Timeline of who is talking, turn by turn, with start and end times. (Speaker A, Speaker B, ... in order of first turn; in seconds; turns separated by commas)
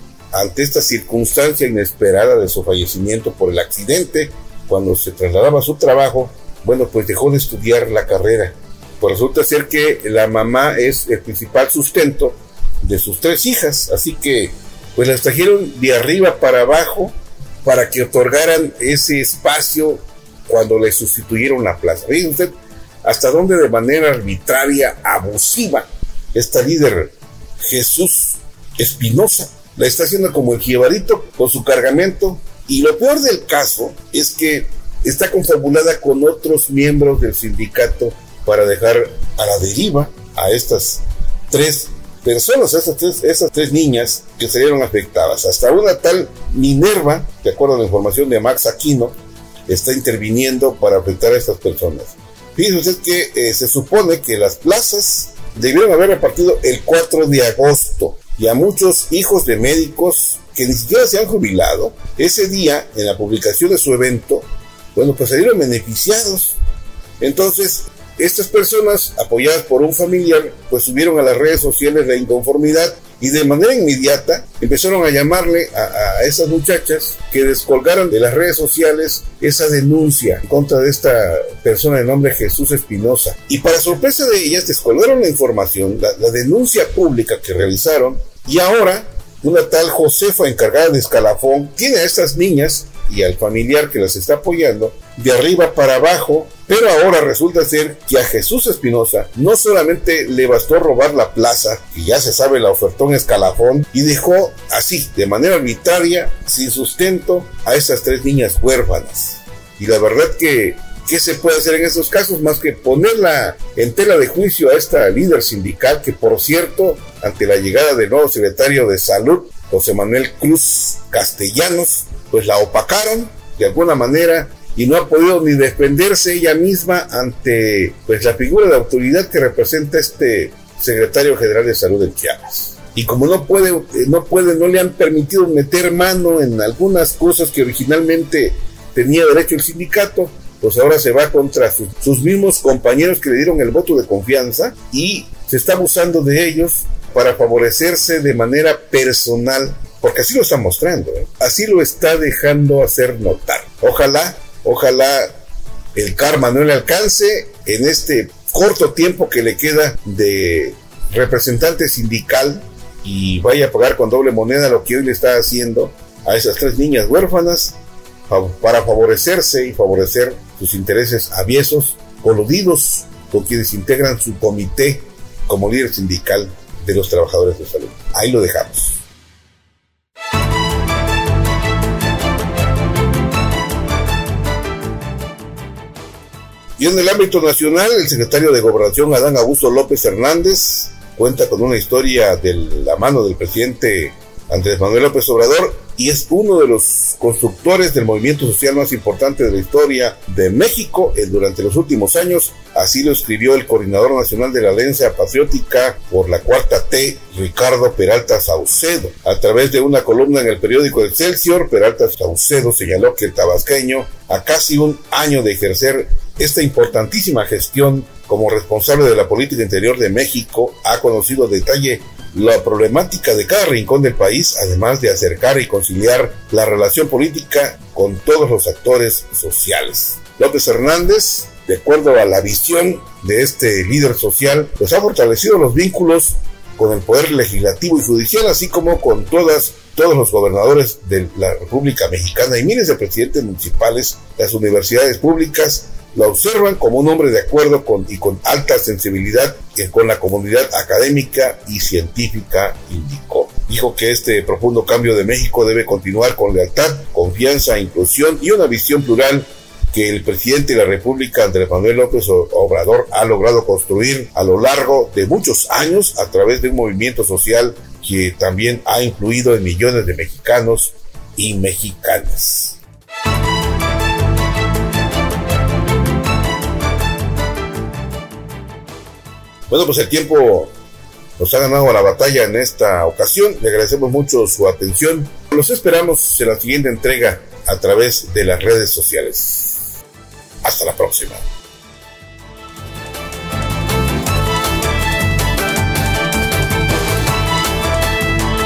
Speaker A: 0.3-22.5, Speaker A: 23.0-49.1, Speaker A: 49.7-66.6, Speaker A: 67.2-155.3, Speaker A: 155.9-167.8, Speaker A: 168.3-179.0, Speaker A: 186.8-272.8, Speaker A: 279.7-280.7, Speaker A: 281.4-289.8, Speaker A: 290.6-291.4